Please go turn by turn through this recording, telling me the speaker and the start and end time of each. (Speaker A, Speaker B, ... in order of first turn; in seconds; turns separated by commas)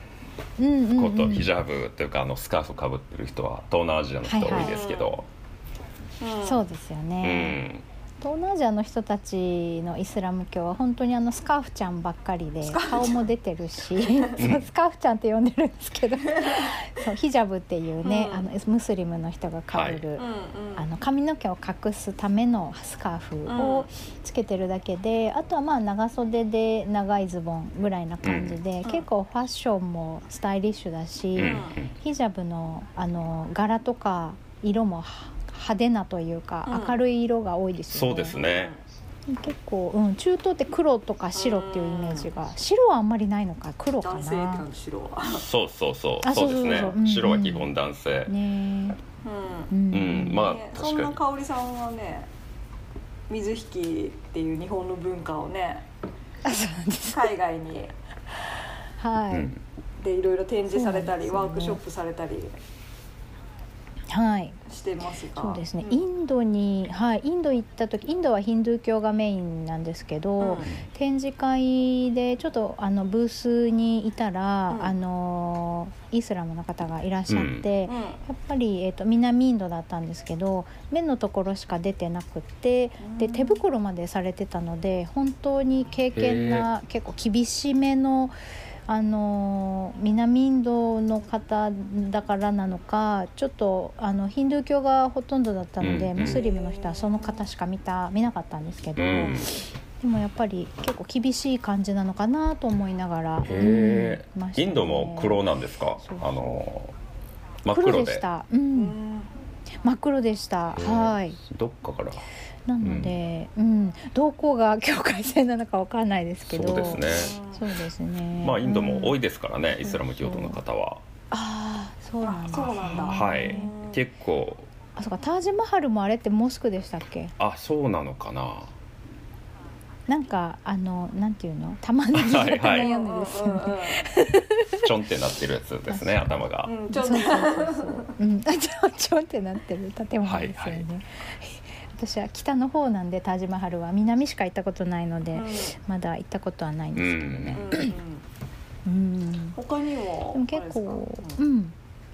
Speaker A: 0.6-1.5, Speaker B: 0.9-5.3, Speaker A: 4.2-4.7, Speaker C: 4.5-5.2, Speaker C: 6.2-6.6, Speaker A: 6.4-7.6, Speaker B: 7.2-7.8, Speaker A: 8.2-20.2, Speaker C: 12.7-13.2, Speaker B: 14.4-14.6, Speaker C: 18.0-18.4, Speaker B: 19.7-20.0, Speaker C: 20.2-20.8, Speaker A: 20.8-38.4, Speaker C: 23.5-23.9, Speaker B: 28.2-28.6, Speaker B: 31.4-31.9, Speaker C: 31.4-31.7, Speaker C: 36.6-37.0, Speaker B: 37.9-38.7, Speaker C: 38.3-38.8, Speaker A: 39.3-44.6, Speaker C: 41.3-42.3, Speaker C: 44.0-45.5, Speaker B: 45.3-48.3, Speaker A: 46.2-47.7, Speaker A: 48.3-49.0, Speaker C: 49.2-49.7, Speaker A: 49.7-50.5, Speaker B: 49.9-51.2, Speaker C: 50.3-52.3, Speaker C: 53.3-55.9, Speaker A: 56.4-57.3, Speaker C: 57.1-57.9, Speaker A: 59.0-59.5, Speaker B: 59.3-59.6, Speaker C: 60.0-62.5, Speaker A: 60.7-61.8, Speaker A: 64.1-64.6, Speaker C: 64.7-66.0, Speaker A: 65.3-88.3, Speaker C: 70.4-70.7, Speaker B: 77.3-77.7, Speaker C: 77.9-78.2, Speaker C: 83.0-83.6, Speaker B: 86.1-86.7, Speaker A: 88.9-105.4, Speaker B: 95.8-96.4, Speaker C: 96.2-97.4, Speaker B: 99.0-99.5, Speaker B: 103.4-106.9, Speaker A: 106.0-106.6, Speaker B: 107.6-108.2, Speaker A: 107.7-109.0, Speaker C: 108.7-109.3, Speaker A: 109.8-111.4, Speaker B: 110.8-112.2, Speaker A: 112.7-119.2, Speaker B: 112.8-113.2, Speaker B: 116.5-117.3, Speaker C: 116.8-117.7, Speaker B: 118.4-121.0, Speaker A: 119.8-120.6, Speaker A: 121.3-123.7, Speaker C: 122.2-124.0, Speaker B: 123.1-124.7, Speaker A: 125.0-127.3, Speaker B: 127.4-128.7, Speaker A: 130.1-134.8, Speaker B: 132.1-132.9, Speaker C: 132.6-134.0, Speaker B: 134.8-136.7, Speaker A: 135.9-147.9, Speaker C: 136.6-138.1, Speaker B: 140.2-140.8, Speaker C: 145.3-145.7, Speaker B: 146.9-147.7, Speaker C: 147.6-148.2, Speaker A: 148.8-149.6, Speaker C: 149.5-151.4, Speaker A: 150.3-151.7